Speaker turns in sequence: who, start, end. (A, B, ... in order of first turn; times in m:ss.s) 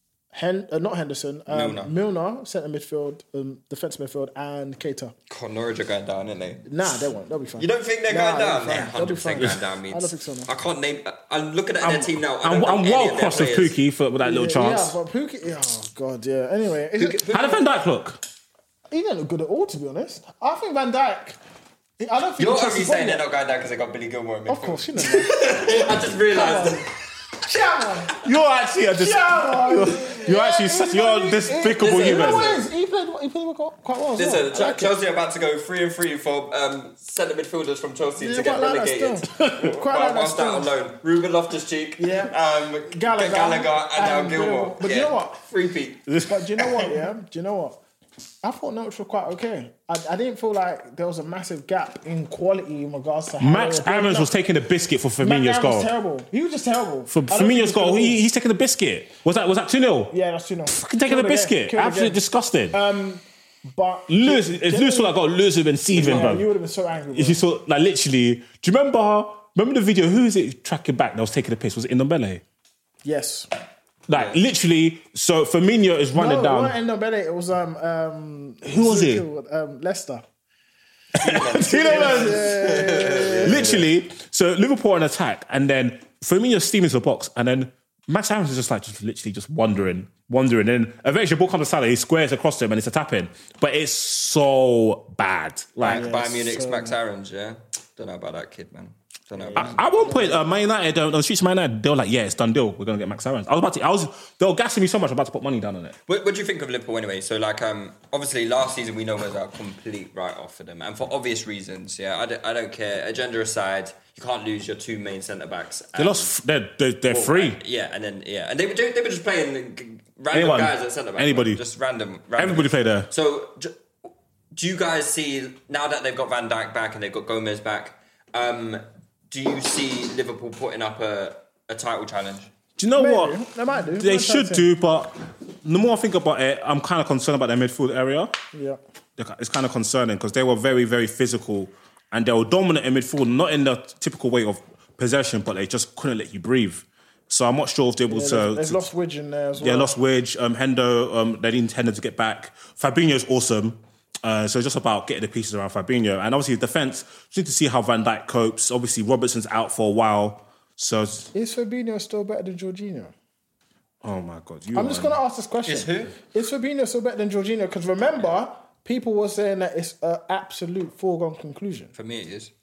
0:00.3-0:05.1 A
0:01.5-0:01.9 B
0:05.3-0:06.7 B
0:06.6-0:10.5 A
0:07.6-0:13.8 B
0:11.8-0:15.0 C
0:14.2-0:17.4 A
0:17.0-0:17.6 B
0:17.3-0:18.2 C
0:18.9-0:21.4 A
0:22.0-0:23.2 A
0:22.4-0:26.9 B
0:24.5-0:26.8 A
0:27.4-0:28.2 A
0:28.2-0:32.6 C
0:29.0-0:34.9 A
0:31.8-0:32.7 B
0:34.1-0:46.9 B
0:38.2-0:40.7 A
0:39.4-0:39.6 C
0:42.0-0:42.3 A
0:42.9-0:45.4 A
0:46.2-0:47.8 A
0:48.4-0:54.3 A
0:53.4-0:55.9 C
0:55.2-0:58.2 A
0:57.1-1:00.1 C
1:00.1-1:05.2 A
1:00.7-1:02.8 C
1:04.1-1:06.5 C
1:05.9-1:07.4 A
1:07.1-1:12.4 C
1:13.0-1:13.5 A
1:14.1-1:16.7 C
1:14.1-1:14.4 B
1:16.1-1:20.2 A
1:18.6-1:19.2 C
1:21.1-1:22.5 C
1:21.2-1:23.8 B
1:21.7-1:23.8 A
1:23.4-1:36.0 C
1:35.8-1:40.0 B
1:35.8-1:36.9 A
1:39.4-1:40.4 A
1:39.6-1:46.0 C
1:46.1-1:56.3 B
1:56.0-1:57.6 C
1:57.1-2:03.8 B
2:00.3-2:01.6 C
2:02.4-2:03.1 C
2:04.5-2:12.5 B
2:12.8-2:18.3 C
2:13.0-2:14.7 A
2:18.5-2:18.8 A
2:19.2-2:28.8 C
2:28.1-2:29.9 A
2:29.6-2:41.3 C
2:41.3-2:43.1 A
2:44.0-2:45.2 C
2:44.7-2:51.9 A
2:45.6-2:46.2 B
2:51.9-2:52.5 B